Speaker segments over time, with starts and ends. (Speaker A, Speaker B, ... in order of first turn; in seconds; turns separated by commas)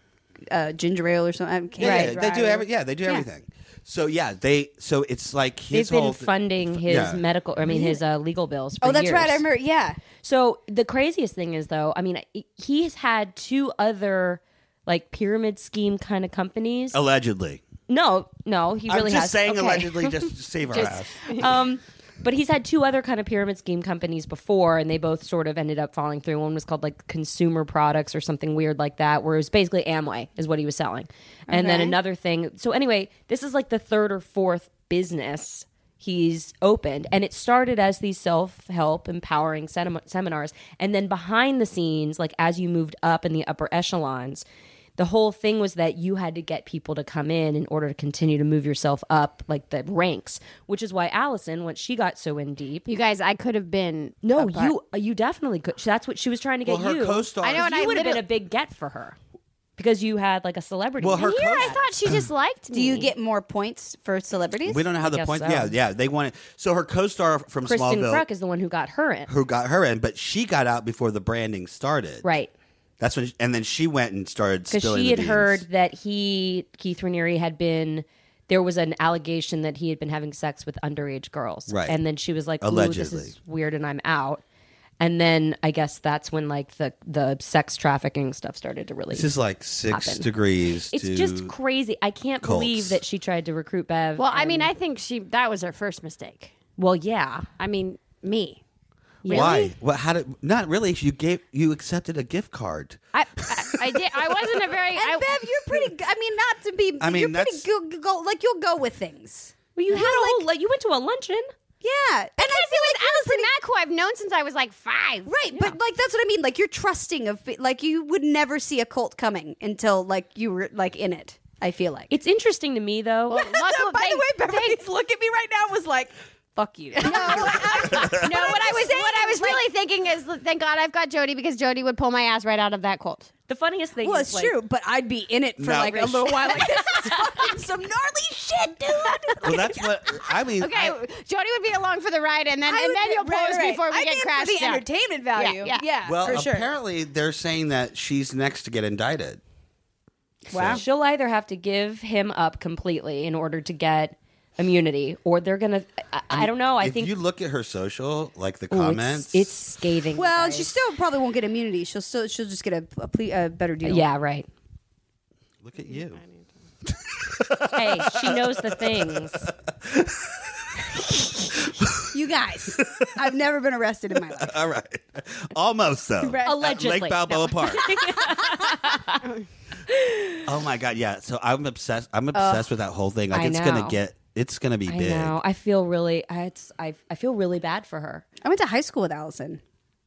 Speaker A: 0.5-3.2, Speaker B: 1.8-7.2, Speaker C: 1.8-2.1, Speaker C: 5.7-9.4, Speaker A: 7.7-8.0, Speaker A: 8.8-10.0, Speaker C: 10.2-17.0, Speaker B: 16.9-17.6, Speaker C: 17.9-44.4, Speaker B: 18.9-21.5, Speaker A: 31.5-32.0, Speaker C: 45.0-52.9, Speaker D: 52.9-54.7, Speaker C: 54.2-59.1, Speaker B: 56.6-58.1, Speaker D: 57.4-58.2, Speaker C: 59.8-61.9, Speaker B: 61.0-62.2, Speaker D: 61.2-63.1, Speaker A: 62.7-64.8, Speaker B: 64.6-68.2, Speaker C: 65.0-65.7, Speaker C: 67.7-69.3, Speaker B: 69.3-72.3, Speaker C: 72.2-72.5, Speaker B: 73.0-75.6, Speaker C: 74.7-84.4, Speaker B: 81.7-82.0, Speaker B: 82.6-83.3, Speaker C: 85.0-89.3, Speaker B: 89.1-91.5, Speaker C: 89.9-90.3, Speaker C: 90.9-94.7, Speaker B: 92.4-93.0, Speaker D: 94.2-96.5, Speaker C: 96.8-97.5, Speaker D: 97.6-98.6, Speaker C: 99.2-99.6, Speaker D: 99.2-99.7, Speaker B: 99.3-104.7, Speaker D: 103.1-105.4, Speaker A: 104.9-110.5, Speaker B: 107.0-107.7, Speaker C: 109.7-111.5, Speaker A: 111.8-113.5, Speaker D: 112.4-115.3, Speaker A: 115.3-122.1, Speaker C: 122.1-123.5, Speaker D: 123.3-124.8, Speaker A: 123.3-129.6, Speaker D: 127.0-133.3, Speaker B: 127.4-128.5, Speaker C: 133.5-134.6, Speaker A: 134.0-139.9, Speaker B: 135.6-136.3, Speaker C: 136.1-137.1, Speaker B: 139.4-141.0, Speaker D: 140.6-145.8, Speaker A: 142.7-146.7, Speaker B: 146.0-149.4, Speaker B: 150.5-150.8, Speaker A: 150.5-150.8, Speaker C: 150.7-157.1, Speaker B: 156.3-159.5, Speaker C: 158.7-160.7, Speaker A: 160.1-164.1, Speaker C: 163.8-164.5, Speaker B: 165.6-166.2, Speaker D: 165.8-166.5, Speaker B: 166.8-172.1, Speaker C: 167.7-169.5, Speaker A: 172.1-174.5, Speaker B: 172.7-173.3, Speaker B: 174.3-178.2, Speaker A: 176.2-176.5, Speaker C: 176.4-179.3, Speaker C: 179.9-180.4, Speaker B: 180.4-185.3, Speaker A: 182.3-182.6, Speaker C: 183.3-184.0, Speaker C: 184.9-188.2, Speaker A: 188.4-189.6